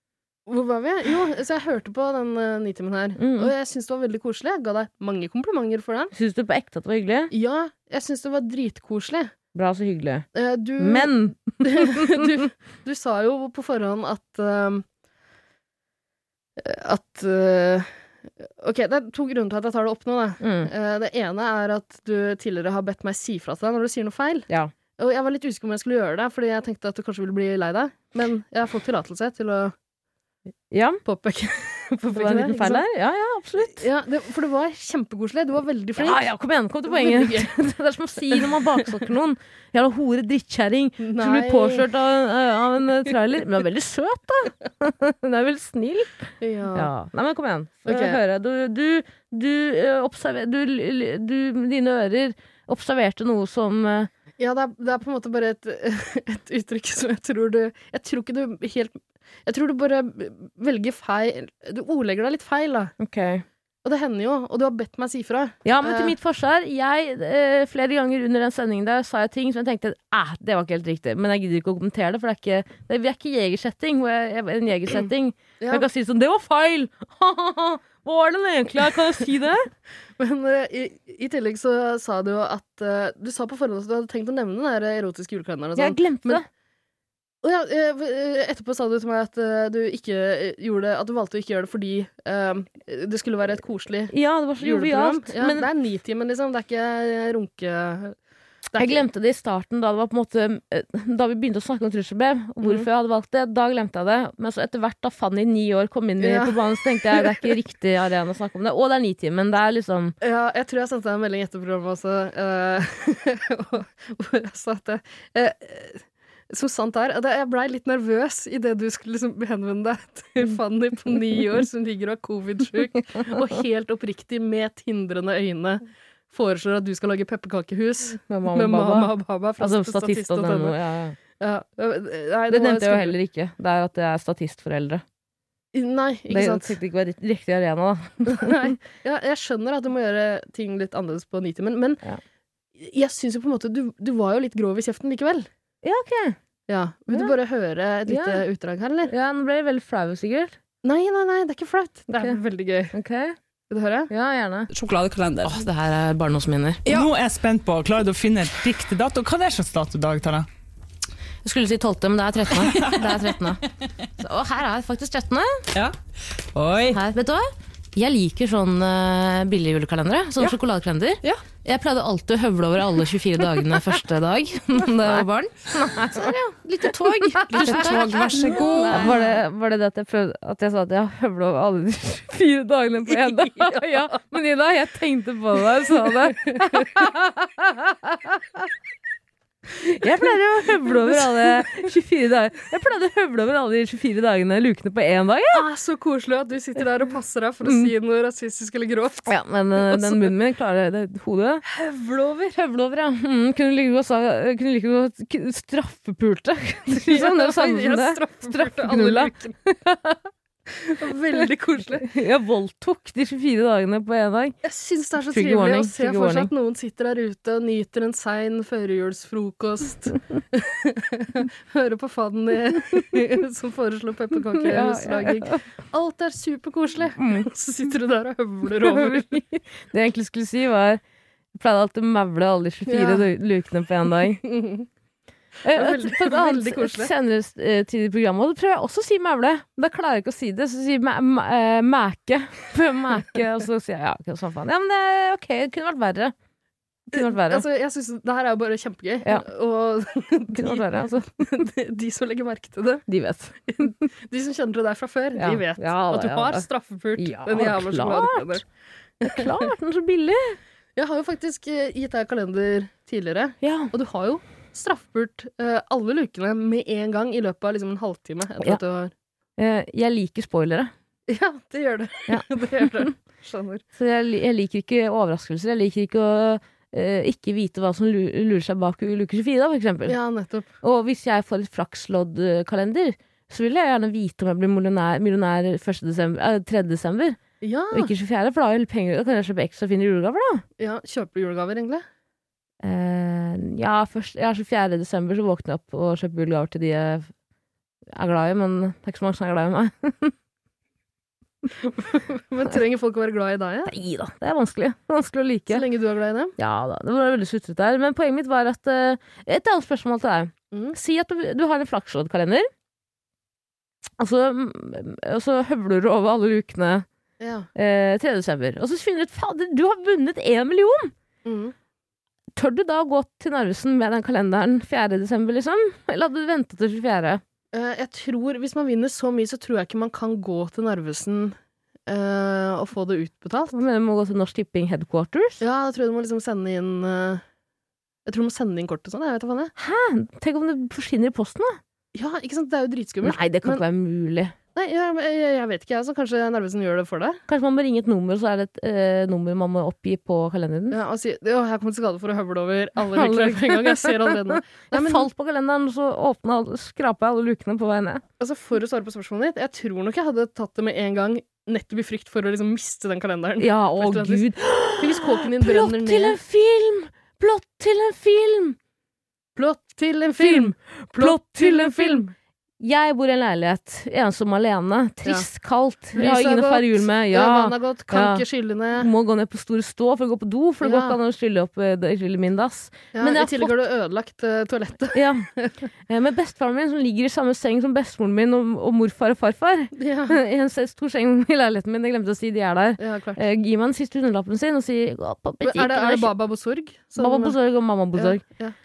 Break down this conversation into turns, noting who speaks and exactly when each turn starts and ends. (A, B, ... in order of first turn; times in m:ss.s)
0:00.5-0:06.1 A
0:03.2-0:03.5 B
0:06.1-0:07.3 B
0:07.3-0:09.3 A
0:09.5-0:10.3 B
0:10.4-0:14.9 A
0:10.8-0:12.3 B
0:16.6-0:29.8 A
0:20.4-0:20.7 B
0:30.7-0:31.0 B
0:31.0-0:32.9 A
0:32.1-0:33.9 B
0:33.6-0:36.2 A
0:36.0-0:54.1 B
0:36.9-0:37.6 A
0:38.3-0:39.0 A
0:41.0-0:41.9 A
0:46.4-0:46.9 A
0:47.8-0:48.2 A
0:54.4-1:02.9 A
1:03.0-1:03.4 B
1:03.8-1:06.2 A
1:05.6-1:19.7 B
1:15.6-1:15.9 A
1:20.2-1:26.4 A
1:25.8-1:26.5 B
1:27.4-1:38.2 A
1:34.1-1:35.7 B
1:38.7-1:39.0 A
1:38.8-1:50.2 B
1:42.6-1:42.9 A
1:46.2-1:47.5 A
1:50.2-2:10.8 A
2:08.3-2:11.2 B
2:11.4-2:13.2 A
2:12.5-2:15.0 B
2:15.7-2:16.8 A
2:16.3-2:18.8 B
2:18.3-2:22.0 A
2:22.8-2:25.5 A
2:25.8-2:26.4 B
2:26.7-2:29.1 A
2:28.1-2:28.4 B
2:29.1-2:30.6 B
2:30.8-2:32.9 A
2:32.1-2:32.4 B
2:32.9-2:33.4 B
2:33.7-2:34.1 A
2:34.1-2:34.7 B
2:35.4-2:36.9 B
2:36.9-2:37.2 C
2:37.8-2:40.4 C
2:41.4-2:43.6 B
2:42.8-2:43.1 C
2:44.2-2:45.6 B
2:46.6-2:47.0 C
2:46.9-3:08.7 B
2:56.1-2:56.4 A
2:57.4-2:59.3 A
2:57.6-2:59.2 C
3:03.1-3:03.9 A
3:06.2-3:06.9 A
3:09.8-3:15.6 B
3:10.8-3:11.7 A
3:15.5-3:20.3 A
3:17.6-3:17.9 B
3:19.3-3:21.6 B
3:21.7-3:22.6 A
3:22.6-3:30.2 B
3:27.0-3:29.6 A
3:30.9-3:32.1 A
3:31.9-3:34.6 B
3:34.6-3:49.4 A
3:35.3-3:36.5 B
3:44.6-3:45.6 B
3:47.2-3:47.5 B
3:48.8-3:51.0 B
3:51.6-3:54.4 B
3:52.9-3:53.3 A
3:54.2-3:54.9 A
3:55.6-4:06.3 B
3:55.7-3:57.1 A
4:07.1-4:07.6 B
4:07.1-4:13.0 A
4:10.5-4:11.5 B
4:13.1-4:13.9 B
4:13.7-4:18.6 A
4:15.4-4:16.7 B
4:17.2-4:18.6 B
4:19.2-4:19.7 A
4:19.2-4:20.6 B
4:21.0-4:29.1 A
4:23.6-4:23.9 B
4:29.6-4:30.9 B
4:31.3-4:33.8 A
4:32.3-4:33.1 B
4:34.0-4:40.2 B
4:40.1-4:40.7 A
4:40.8-4:47.4 B
4:47.6-4:48.1 A
4:47.9-4:50.6 B
4:50.8-4:52.0 A
4:52.8-4:57.3 B
4:58.1-5:00.3 B
5:01.8-5:03.9 A
5:03.9-5:05.8 B
5:05.7-5:06.6 A
5:06.6-5:12.7 B
5:14.2-5:17.1 B
5:17.4-5:17.7 A
5:17.8-5:21.1 B
5:21.4-5:21.8 A
5:22.6-5:27.4 B
5:27.7-5:33.8 A
5:33.7-5:35.6 B
5:35.6-5:37.4 A
5:38.3-5:39.7 A
5:39.8-5:41.8 B
5:42.1-5:43.8 A
5:43.2-5:44.6 B
5:44.8-5:47.4 A
5:47.5-5:51.0 B
5:50.9-5:55.3 A
5:53.1-5:58.2 B
5:58.4-6:06.4 A
6:03.6-6:08.8 B
6:09.6-6:12.3 A
6:10.4-6:18.4 B
6:16.1-6:19.1 A
6:19.0-6:23.8 B
6:20.8-6:21.2 A
6:23.1-6:25.8 A
6:25.1-6:25.5 B
6:26.1-6:36.3 B
6:30.0-6:30.4 A
6:33.0-6:33.4 A
6:35.6-6:37.6 A
6:37.2-6:38.4 B
6:38.2-6:38.8 A